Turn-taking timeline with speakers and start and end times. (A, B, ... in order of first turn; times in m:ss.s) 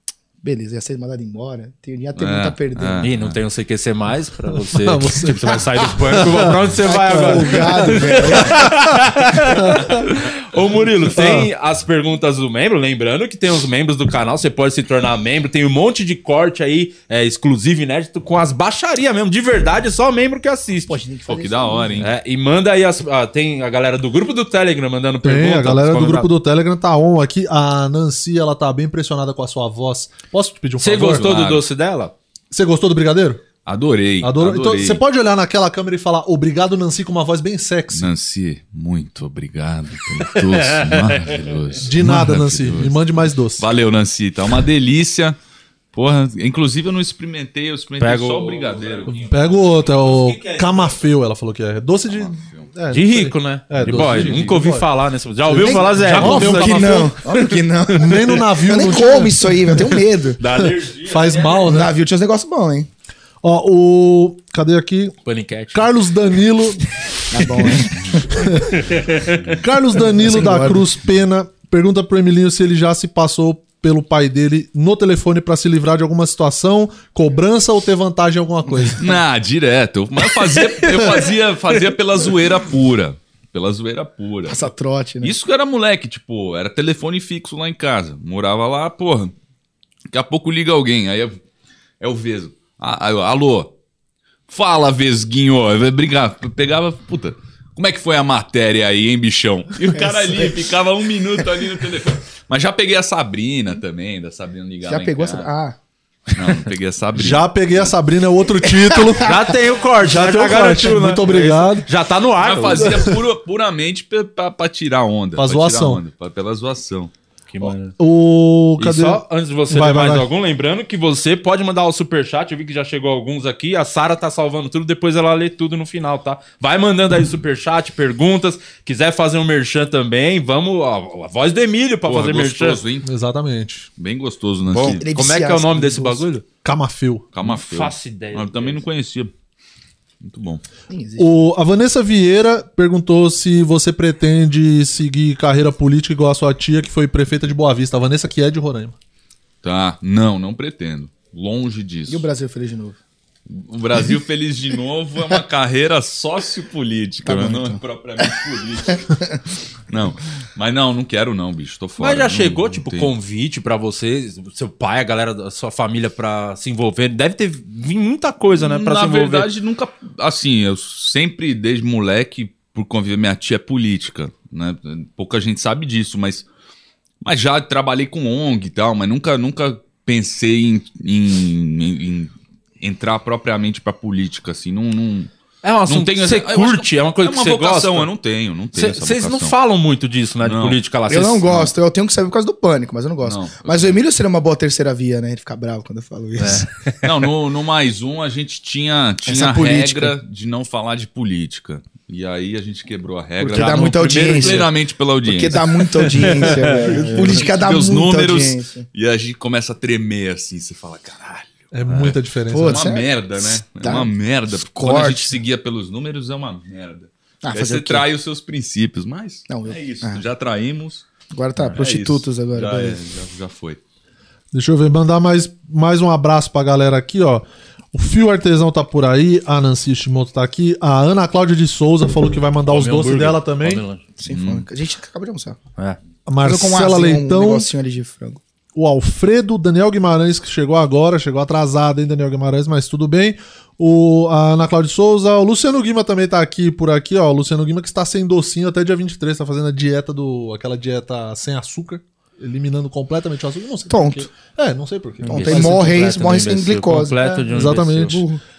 0:00.4-0:03.0 A
0:02.2-0:03.4 B
0:03.0-0:21.0 C
0:04.6-0:10.1 D
0:06.9-0:08.7 A
0:11.1-0:11.5 D
0:20.9-0:22.1 A
0:21.3-0:22.1 B
0:22.0-0:26.3 C
0:25.2-0:31.3 D
0:30.8-0:32.1 C
0:31.0-0:31.6 B
0:32.5-0:33.4 D
0:33.7-0:35.0 B
0:34.2-0:38.1 D
0:37.9-0:43.0 B
0:40.2-0:41.8 C
0:41.8-0:43.7 D
0:43.6-0:45.4 B
0:45.9-0:49.1 B
0:48.0-0:51.0 C
0:49.1-0:54.9 D
0:52.1-0:52.7 B
0:52.9-0:58.4 C
0:53.9-0:54.5 B
0:55.5-0:57.1 D
0:55.6-1:00.4 A
0:58.0-1:00.0 D
1:00.4-1:01.8 C
1:00.6-1:01.9 D
1:01.7-1:02.9 A
1:03.4-1:05.2 D
1:05.2-1:05.9 C
1:05.7-1:08.8 D
1:07.3-1:08.5 A
1:08.7-1:09.4 C
1:09.3-1:09.6 B
1:09.6-1:19.1 D
1:10.0-1:10.9 A
1:19.0-1:24.7 B
1:20.3-1:21.3 C
1:24.5-1:25.3 A
1:25.2-1:29.3 B
1:30.1-1:31.4 B
1:32.0-1:33.7 B
1:34.5-1:45.5 B
1:40.0-1:40.7 A
1:44.9-1:45.8 A
1:46.3-1:47.9 B
1:47.2-1:51.9 D
1:48.8-1:49.3 A
1:49.2-1:53.0 C
1:52.4-1:57.1 B
1:52.8-1:53.2 D
1:55.4-1:56.0 D
1:57.5-1:57.9 C
1:57.6-2:00.3 D
1:58.8-2:12.8 C
2:12.0-2:13.1 B
2:13.0-2:13.9 D
2:14.0-2:15.0 B
2:14.7-2:16.4 C
2:14.8-2:16.2 A
2:16.6-2:17.3 D
2:17.3-2:19.3 B
2:17.4-2:18.8 C
2:20.2-2:20.6 B
2:20.9-2:21.4 A
2:21.2-2:29.0 D
2:29.6-2:32.2 B
2:32.1-2:33.0 A
2:33.5-2:39.3 B
2:37.2-2:38.3 A
2:38.9-2:39.4 A
2:39.9-2:43.1 B
2:42.0-2:49.5 C
2:48.6-2:56.5 B
2:57.2-3:05.3 B
3:05.6-3:08.1 C
3:05.9-3:09.6 B
3:08.7-3:11.5 C
3:10.4-3:10.8 B
3:11.1-3:16.7 A
3:13.2-3:14.0 B
3:16.4-3:16.9 C
3:17.0-3:41.1 B
3:19.3-3:20.2 A
3:23.4-3:24.7 A
3:23.5-3:24.7 C
3:25.2-3:28.9 A
3:26.0-3:27.4 C
3:31.7-3:32.8 D
3:32.5-3:34.1 A
3:34.7-3:35.4 A
3:37.4-3:38.0 A
3:39.5-3:40.2 A
3:41.3-3:43.0 A
3:41.6-3:43.8 B
3:44.5-3:53.8 D
3:52.7-3:54.0 C
3:54.2-3:55.6 A
3:54.3-3:54.7 B
3:56.3-3:57.7 D
3:56.4-3:58.4 A
3:58.7-4:15.9 D
4:13.9-4:14.3 A
4:15.2-4:18.2 C
4:15.3-4:18.4 A
4:17.5-4:18.3 D